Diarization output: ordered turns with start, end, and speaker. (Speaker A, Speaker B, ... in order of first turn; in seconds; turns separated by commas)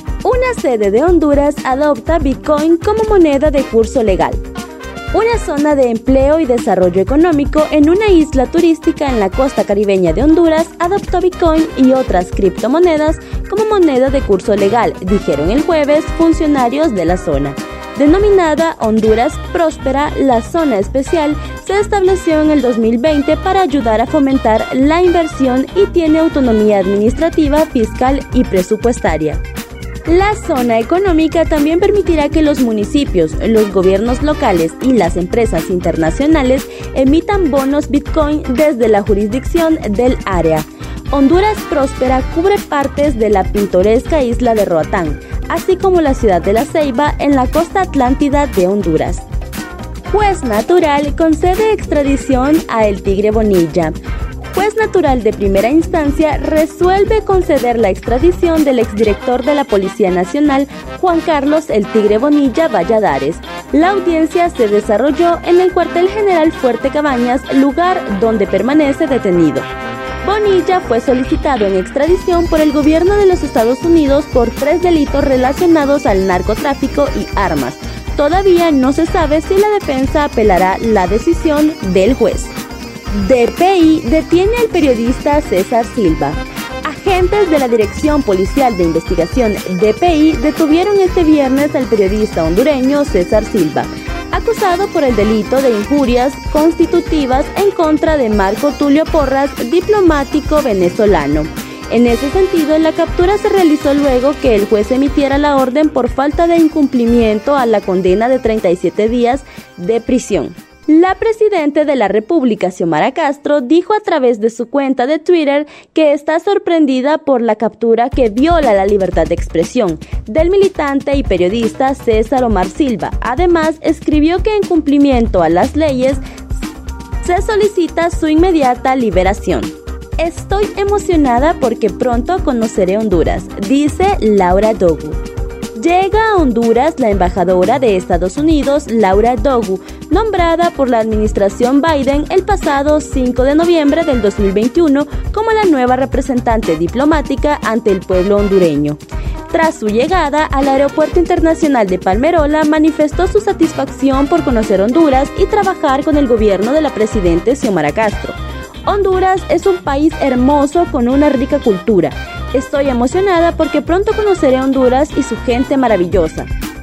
Speaker A: 0.2-4.4, Speaker A: 5.1-29.4, Speaker A: 30.1-49.3, Speaker A: 50.1-69.7, Speaker A: 70.2-82.5, Speaker A: 83.1-126.2, Speaker A: 127.2-135.2, Speaker A: 135.8-149.0, Speaker A: 149.5-166.5